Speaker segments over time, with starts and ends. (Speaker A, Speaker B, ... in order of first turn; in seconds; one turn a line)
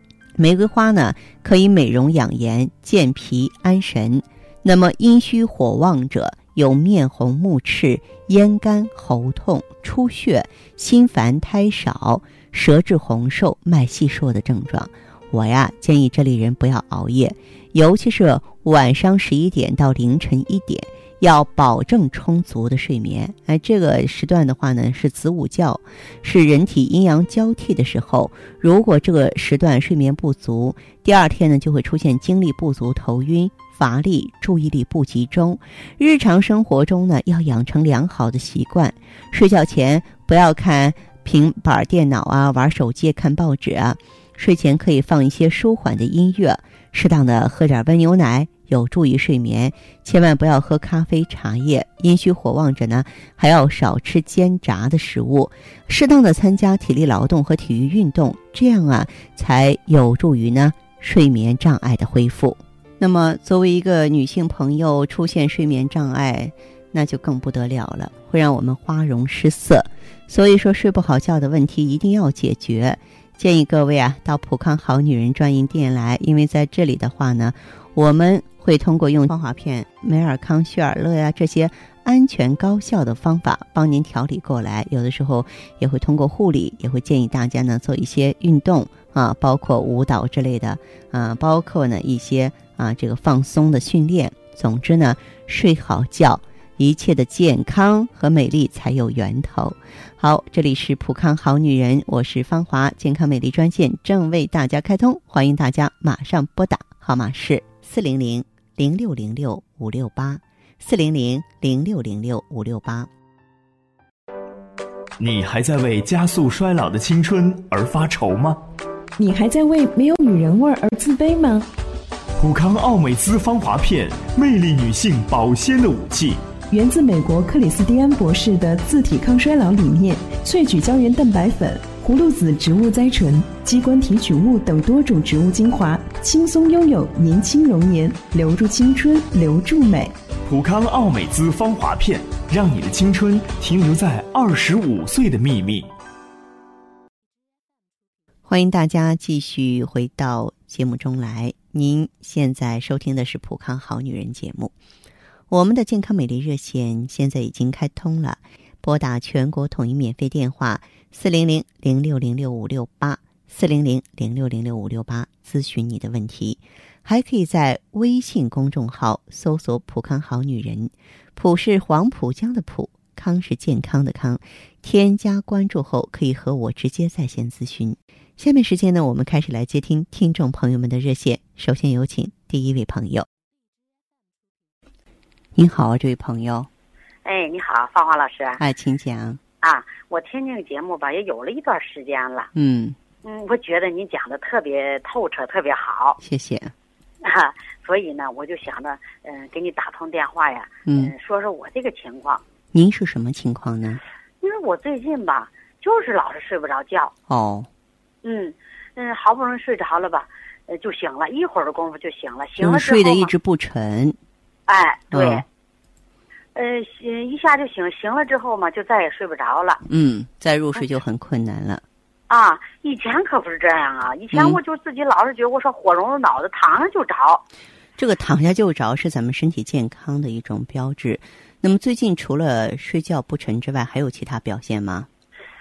Speaker A: 0.4-113.1
Speaker B: 115.2-118.6
Speaker C: 119.2-121.7
Speaker B: 122.4-126.5
Speaker C: 126.7-140.1
Speaker B: 140.4-145.9
Speaker A: 148.5-154.7
Speaker A: 155.5-183.3
Speaker A: 185.6-186.7
Speaker D: 187.2-188.6
Speaker A: 188.6-189.4
Speaker D: 189.6-192.5
Speaker A: 192.6-193.0
Speaker D: 193.2-196.2
Speaker A: 196.2-196.7
Speaker D: 197.2-202.4
Speaker A: 200.9-201.1
Speaker A: 202.7-204.0
Speaker D: 204.4-207.1
Speaker A: 207.3-207.7
Speaker D: 208.2-213.3
Speaker A: 212.6-214.2
Speaker D: 214.7-215.4
Speaker A: 215.1-215.4
Speaker D: 216.6-219.8
Speaker A: 219.9-221.8
Speaker D: 222.3-227.4
Speaker A: 224.3-224.6
Speaker A: 228.0-235.1